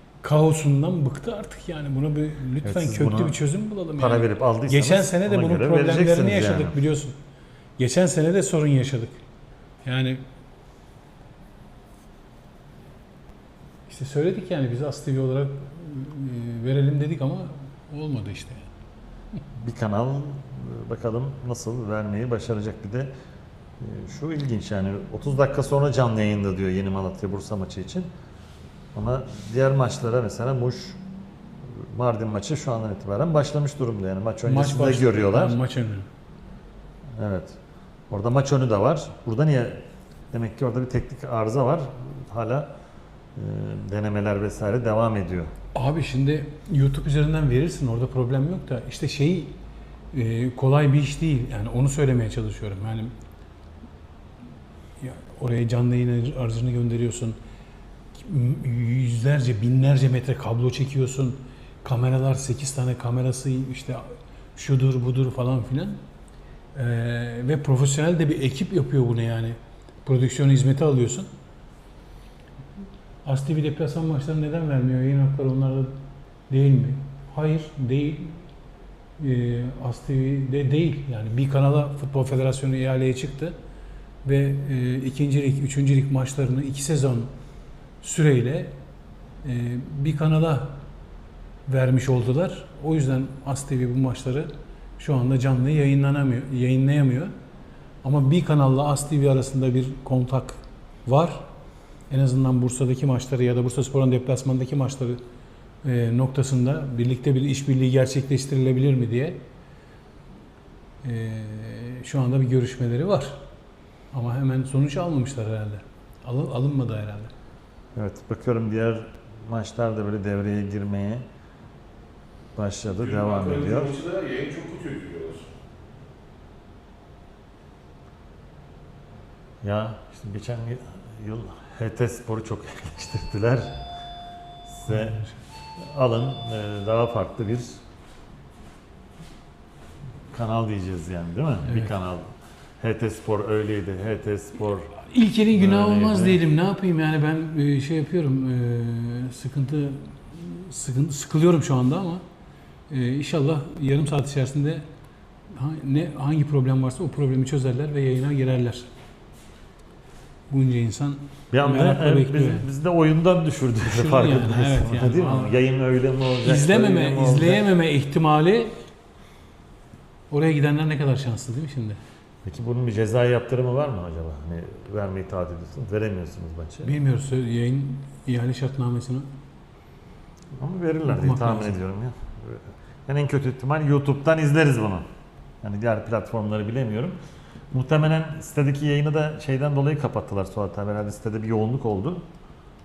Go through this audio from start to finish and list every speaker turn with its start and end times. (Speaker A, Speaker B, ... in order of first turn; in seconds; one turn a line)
Speaker A: 0.2-7.2
Speaker B: 2.6-3.4
Speaker B: 4.0-6.8
Speaker A: 7.8-9.2
Speaker A: 9.8-10.2
Speaker A: 13.9-18.7
Speaker B: 19.6-23.1
Speaker B: 23.8-28.1
Speaker B: 28.9-31.0
Speaker B: 31.7-35.6
Speaker A: 34.4-36.1
Speaker B: 37.1-37.6
Speaker B: 38.1-39.8
Speaker B: 40.3-42.7
Speaker B: 43.3-45.5
Speaker A: 45.7-49.5
Speaker A: 50.1-53.1
Speaker A: 55.0-57.4
Speaker A: 58.1-66.0
Speaker A: 66.7-71.3
Speaker A: 73.2-76.0
Speaker A: 76.5-78.4
Speaker A: 79.2-83.5
Speaker A: 84.2-87.3
Speaker A: 88.0-88.7
Speaker A: 89.4-90.8
Speaker A: 91.7-97.3
Speaker A: 98.0-101.4
Speaker A: 102.1-105.2
Speaker A: 105.8-109.4
Speaker A: 111.0-113.4
Speaker A: 114.1-117.3
Speaker B: 118.0-121.2
Speaker B: 122.5-124.0
Speaker C: 123.0-125.5
Speaker B: 129.6-133.8
Speaker B: 134.7-135.2
Speaker A: 134.9-135.3
Speaker B: 135.8-137.8
Speaker B: 140.3-144.9
Speaker A: 141.6-141.9
Speaker A: 145.0-152.2
Speaker B: 145.5-146.4
Speaker A: 152.9-154.8
Speaker A: 155.5-158.9
Speaker A: 160.5-162.7
Speaker B: 161.5-167.6
Speaker A: 163.8-165.5
Speaker A: 166.4-168.7
Speaker A: 170.3-172.0
Speaker B: 172.4-176.9
Speaker A: 176.8-179.3
Speaker B: 180.6-185.0
Speaker A: 181.0-181.8
Speaker B: 185.6-187.2
Speaker B: 187.7-192.2